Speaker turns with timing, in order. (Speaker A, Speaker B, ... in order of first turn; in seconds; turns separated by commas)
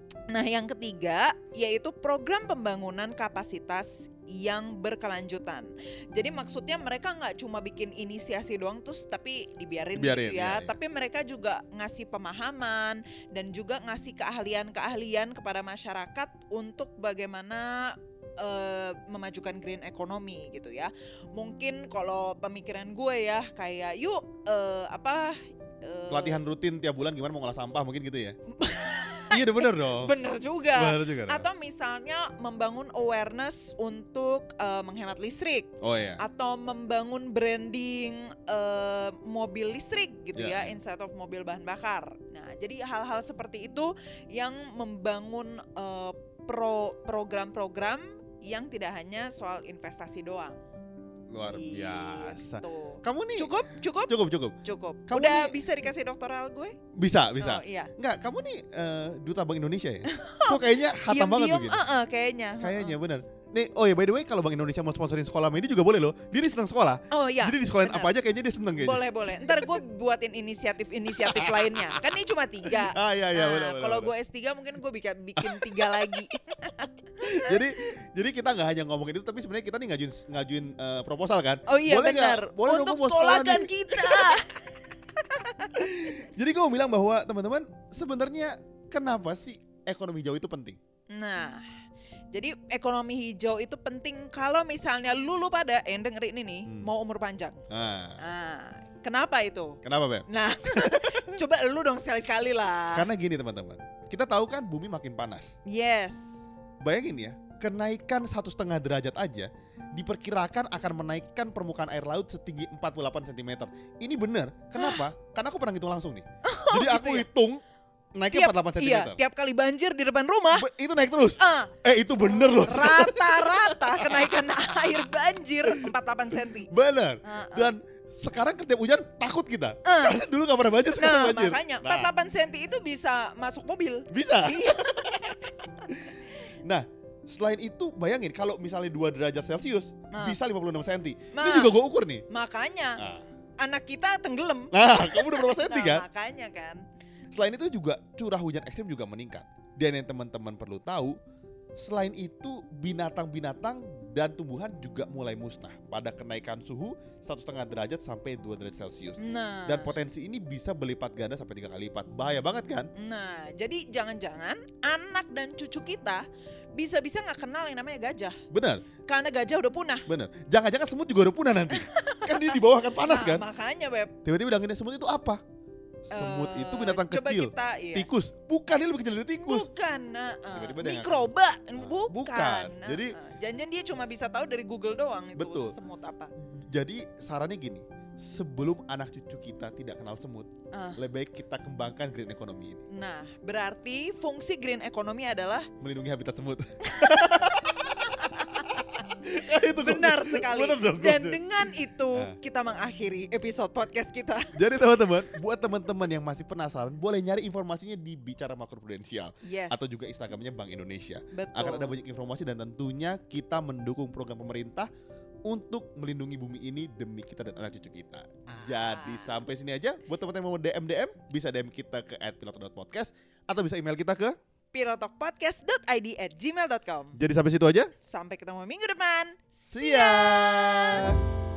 Speaker A: 0.3-26.4, Speaker B: 9.9-10.7, Speaker B: 26.1-28.4, Speaker A: 28.5-50.6, Speaker B: 29.3-30.1, Speaker B: 30.7-31.4, Speaker B: 35.8-36.2, Speaker B: 40.3-40.7, Speaker B: 51.3-53.5, Speaker A: 51.5-54.1, Speaker B: 54.1-54.6, Speaker A: 54.6-56.8, Speaker B: 55.1-55.5, Speaker B: 56.9-61.8, Speaker A: 57.4-57.9, Speaker A: 60.0-63.0, Speaker B: 62.6-69.8, Speaker A: 67.1-68.1, Speaker A: 68.8-77.7, Speaker B: 71.2-71.9, Speaker B: 72.7-74.1, Speaker B: 75.4-76.1, Speaker B: 77.2-84.4, Speaker A: 81.7-86.1, Speaker B: 85.7-90.8, Speaker A: 91.1-91.8, Speaker A: 92.3-97.6, Speaker B: 97.7-98.2, Speaker A: 98.2-103.1, Speaker B: 99.8-101.3, Speaker B: 102.9-105.5, Speaker A: 105.7-106.3, Speaker B: 106.8-117.6, Speaker A: 114.8-115.0, Speaker A: 116.4-117.3, Speaker B: 118.2-119.2, Speaker A: 118.3-120.7, Speaker B: 120.5-124.7, Speaker A: 121.4-126.7, Speaker B: 126.7-132.1, Speaker A: 127.2-127.7, Speaker A: 129.8-130.2, Speaker A: 131.0-135.9, Speaker B: 134.1-134.9, Speaker B: 135.9-142.2, Speaker A: 140.1-140.4, Speaker A: 141.3-141.7, Speaker A: 142.3-143.0, Speaker B: 143.0-143.2, Speaker A: 143.6-146.8, Speaker B: 144.7-146.0, Speaker B: 147.3-151.2, Speaker B: 151.8-162.9, Speaker A: 159.2-159.9, Speaker A: 162.9-166.2, Speaker A: 166.7-168.4, Speaker B: 168.5-168.8, Speaker A: 169.1-170.1, Speaker B: 170.1-173.4, Speaker A: 171.7-174.1, Speaker B: 174.2-175.4, Speaker B: 176.1-179.7, Speaker A: 176.1-178.1, Speaker A: 179.4-186.3, Speaker B: 180.5-183.1, Speaker B: 185.3-185.7, Speaker B: 186.4-192.8, Speaker A: 190.7-191.0, Speaker A: 192.9-195.7, Speaker B: 195.8-198.2, Speaker A: 196.8-198.8, Speaker B: 199.1-201.4, Speaker A: 199.6-204.6, Speaker B: 204.6-214.9, Speaker A: 209.4-209.9, Speaker A: 211.3-211.9, Speaker B: 215.5-224.4, Speaker A: 218.5-219.4, Speaker A: 224.7-227.2, Speaker B: 227.1-227.9, Speaker A: 228.0-231.1, Speaker B: 229.7-231.2